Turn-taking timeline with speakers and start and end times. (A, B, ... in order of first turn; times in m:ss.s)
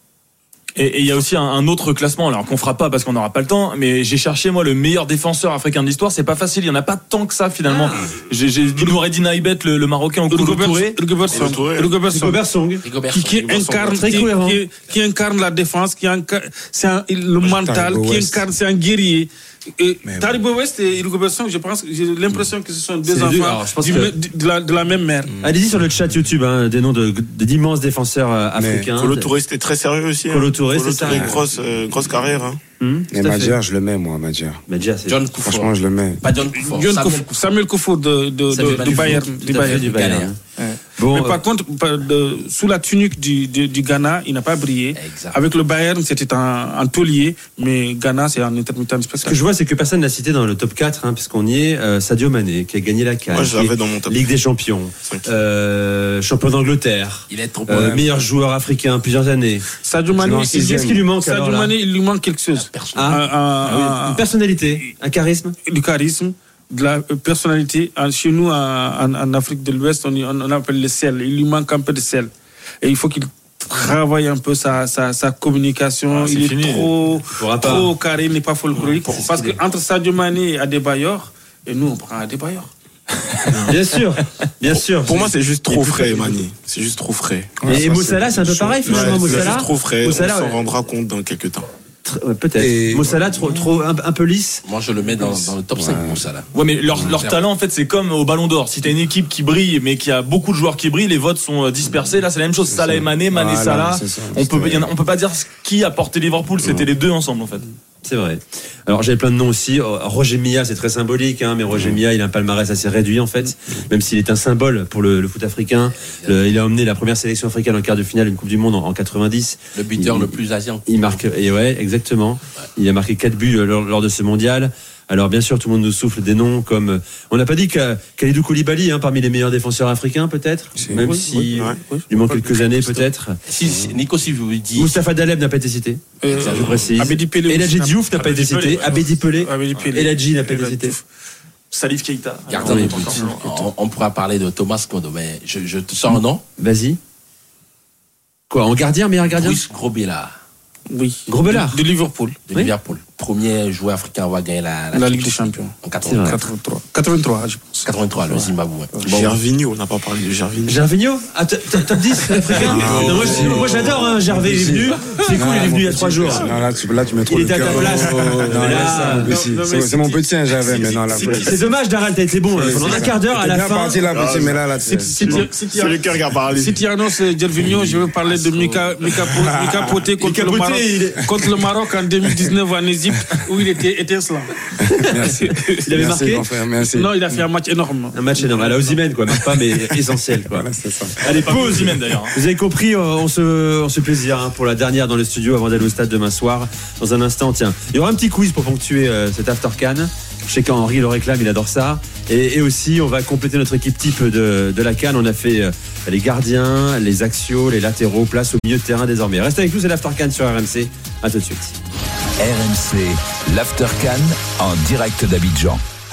0:00.8-0:11.0 A
0:07.7-0:08.0 B
0:10.3-0:12.4 C
0:11.3-0:12.0 D
0:12.0-0:12.8 B
0:12.8-0:14.3 E
0:13.1-0:25.4 C
0:13.9-0:14.6 B
0:17.4-0:18.4 F
0:20.0-0:20.4 F
0:23.0-0:24.1 B
0:25.4-0:29.3 B
0:28.5-0:28.9 F
0:29.0-0:32.6 D
0:30.3-0:31.4 B
0:32.8-0:33.6 B
0:33.1-0:34.6 F
0:34.7-0:35.2 B
0:35.0-0:37.4 E
0:35.4-0:36.2 F
0:36.5-0:39.9 C
0:38.5-0:40.4 B
0:38.5-0:40.3 E
0:40.6-0:49.4 C
0:41.0-0:41.4 B
0:44.9-0:45.4 E
0:49.2-0:59.7 B
0:53.3-0:54.3 D
0:55.0-0:55.3 D
0:57.3-0:58.1 E
0:59.8-1:04.3 C
1:00.1-1:01.0 F
1:00.7-1:01.7 B
1:02.5-1:03.8 E
1:02.9-1:05.5 B
1:05.6-1:12.3 C
1:12.8-1:22.7 C
1:16.1-1:16.9 A
1:17.4-1:17.9 B
1:18.8-1:19.6 B
1:23.5-1:23.8 D
1:23.6-1:26.4 B
1:24.7-1:27.6 D
1:27.6-1:29.4 F
1:27.6-1:30.6 B
1:28.8-1:31.7 D
1:32.0-1:34.6 B
1:32.6-1:33.8 F
1:34.6-1:36.5 E
1:35.1-1:36.2 F
1:36.5-1:47.7 A
1:37.0-1:37.4 E
1:42.7-1:44.9 F
1:48.0-2:13.4 B
1:51.7-1:52.0 F
1:56.0-1:56.4 E
1:59.7-2:01.2 E
2:10.8-2:11.1 F
2:11.0-2:12.5 C
2:11.5-2:11.8 D
2:12.7-2:14.9 E
2:14.7-2:21.0 B
2:16.2-2:18.5 C
2:16.3-2:17.1 E
2:18.2-2:19.9 A
2:19.4-2:21.0 C
2:21.7-2:23.7 A
2:22.5-2:26.4 E
2:22.6-2:23.1 B
2:26.6-2:27.0 B
2:28.5-2:29.6 B
2:29.2-2:30.3 E
2:30.9-2:32.4 C
2:31.3-2:31.8 B
2:32.5-2:36.4 E
2:34.9-2:35.7 C
2:36.0-2:36.4 B
2:36.2-2:39.2 C
2:37.8-2:39.4 E
2:39.0-2:40.8 D
2:40.6-2:46.5 B
2:42.3-2:44.9 E
2:42.5-2:51.6 F
2:43.0-2:43.6 D
2:46.3-2:46.6 D
2:47.2-2:49.4 B
2:47.6-2:48.5 D
2:48.0-2:48.7 E
2:48.7-2:50.9 C
2:50.7-2:51.5 D
2:51.2-2:54.0 B
2:52.5-2:55.5 F
2:54.0-2:56.9 D
2:54.9-3:04.5 C
2:55.1-2:55.4 B
2:57.6-2:58.1 D
2:59.0-2:59.4 D
3:00.2-3:01.5 B
3:04.8-3:07.2 F
3:05.8-3:06.5 B
3:06.9-3:09.0 C
3:08.1-3:10.7 B
3:09.3-3:12.0 F
3:11.2-3:31.8 B
3:11.2-3:12.3 A
3:32.4-3:35.8 G